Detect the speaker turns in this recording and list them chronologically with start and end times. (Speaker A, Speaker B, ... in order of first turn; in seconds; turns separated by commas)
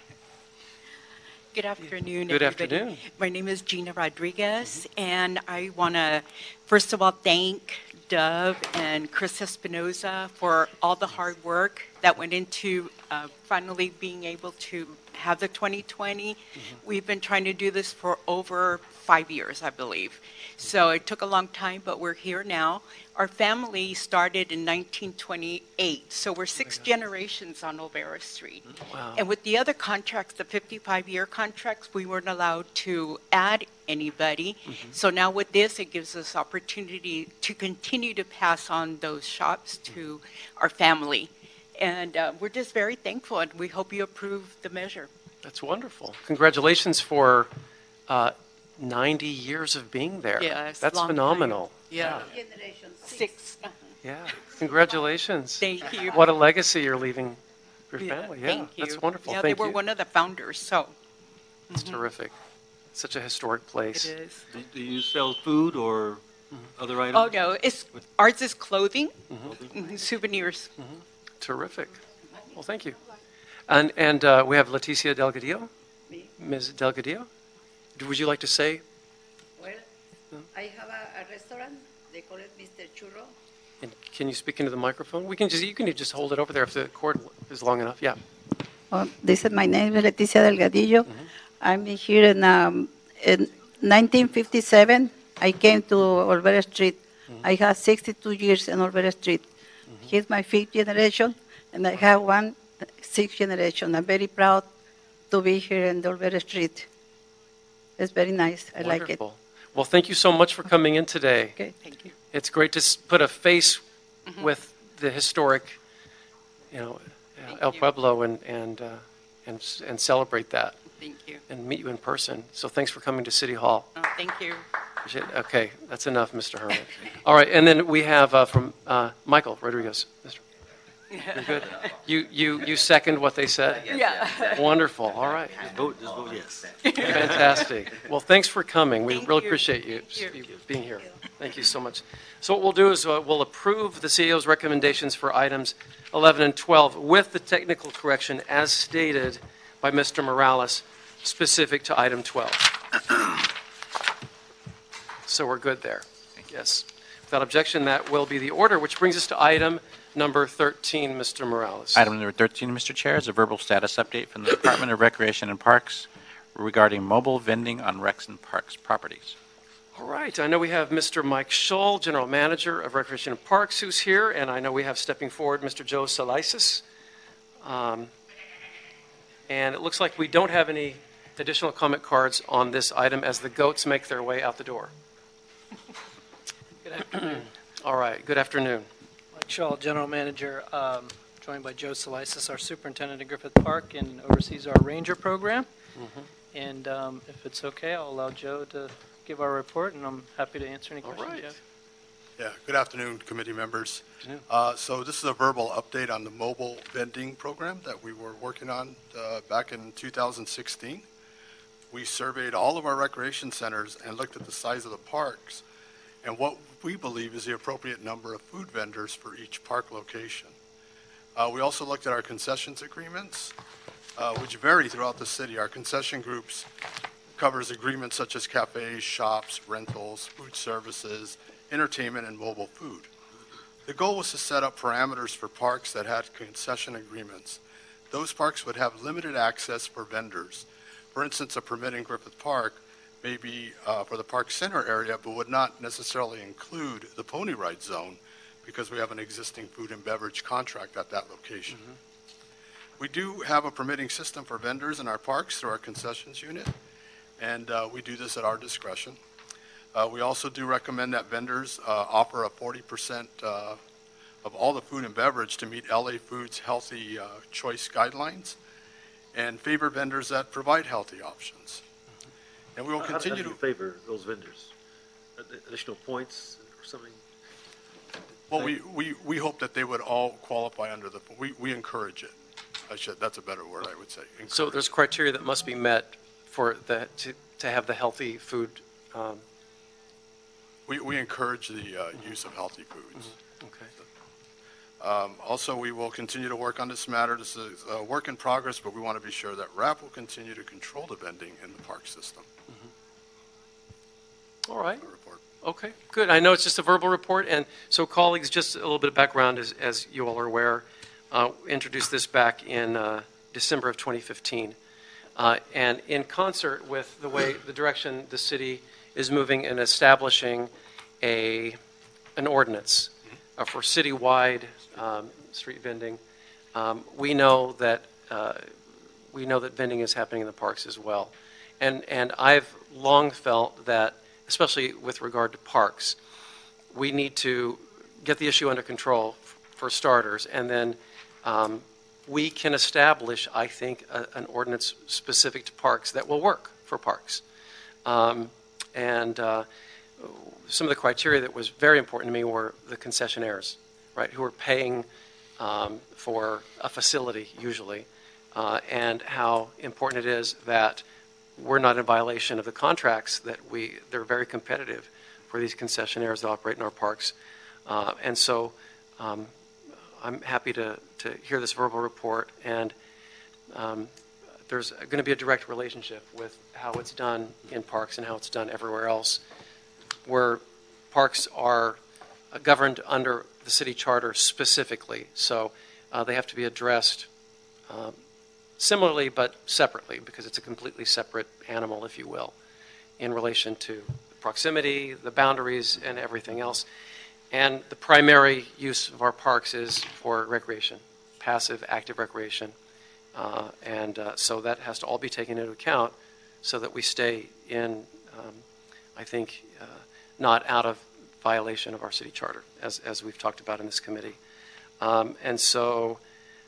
Speaker A: 1.5-45.1, Speaker B: 2.2-3.0, Speaker B: 28.9-29.2, Speaker B: 34.7-34.9, Speaker B: 45.4-47.5, Speaker B: 48.1-52.3, Speaker A: 50.4-52.3, Speaker A: 53.0-53.7, Speaker B: 54.0-59.8, Speaker A: 55.6-56.3, Speaker A: 58.0-60.9, Speaker A: 61.7-62.0, Speaker B: 61.7-62.3, Speaker B: 62.9-64.1, Speaker A: 63.9-64.4, Speaker C: 64.5-66.2, Speaker C: 66.8-67.5, Speaker A: 67.1-70.7, Speaker B: 70.8-72.0, Speaker B: 72.5-73.0, Speaker B: 73.7-75.7, Speaker B: 76.4-77.3, Speaker B: 77.9-78.8, Speaker B: 83.8-88.2, Speaker D: 88.9-91.1, Speaker D: 91.6-99.4, Speaker D: 100.0-104.7, Speaker D: 105.3-106.9, Speaker D: 108.0-109.2, Speaker B: 108.8-111.6, Speaker A: 111.8-112.1, Speaker B: 112.3-113.8, Speaker A: 114.3-114.5, Speaker B: 114.4-115.8, Speaker B: 116.7-120.8, Speaker A: 117.5-117.8, Speaker A: 120.9-121.4, Speaker B: 121.5-123.9, Speaker A: 124.0-124.6, Speaker B: 125.0-130.4, Speaker A: 131.1-131.5, Speaker B: 131.3-135.7, Speaker A: 133.9-134.7, Speaker C: 135.6-137.5, Speaker A: 136.8-137.2, Speaker B: 137.0-152.8, Speaker A: 139.1-140.4, Speaker B: 155.2-162.1, Speaker E: 161.9-169.3, Speaker B: 169.9-176.8, Speaker B: 177.6-178.1, Speaker B: 179.5-184.9, Speaker F: 186.8-187.2, Speaker B: 187.0-188.9, Speaker F: 189.3-195.7, Speaker B: 196.0-196.2, Speaker F: 196.5-201.6, Speaker B: 201.0-201.5, Speaker G: 202.4-211.1, Speaker G: 211.9-215.6, Speaker G: 216.2-220.5, Speaker G: 221.3-223.5, Speaker G: 224.2-226.7, Speaker G: 227.3-233.1, Speaker G: 233.8-237.6, Speaker G: 238.1-251.8, Speaker G: 253.0-256.7, Speaker G: 257.4-259.2, Speaker G: 259.9-263.8, Speaker G: 264.4-268.6, Speaker G: 269.3-271.8, Speaker G: 272.8-273.6, Speaker C: 273.0-274.7, Speaker C: 275.4-277.2, Speaker G: 278.5-282.3, Speaker G: 282.9-284.9, Speaker B: 284.5-289.4, Speaker G: 290.9-293.4, Speaker B: 293.6-293.9, Speaker G: 295.0-302.5, Speaker B: 304.6-305.0, Speaker G: 305.0-305.4, Speaker B: 305.6-314.8, Speaker B: 315.4-320.7, Speaker B: 321.2-321.8, Speaker B: 322.4-326.2, Speaker B: 326.7-328.7, Speaker B: 329.3-336.2, Speaker B: 336.9-347.4, Speaker B: 348.0-349.7, Speaker B: 350.2-355.1, Speaker B: 355.6-361.0, Speaker B: 361.6-367.3, Speaker B: 367.9-369.5, Speaker B: 370.1-372.9, Speaker B: 373.7-374.1, Speaker B: 374.6-379.4, Speaker B: 380.2-382.0, Speaker B: 382.5-387.3, Speaker B: 387.9-388.2, Speaker B: 388.8-392.5, Speaker B: 393.2-396.9, Speaker B: 397.5-402.7, Speaker B: 403.3-408.6, Speaker B: 409.1-414.4, Speaker B: 415.0-416.2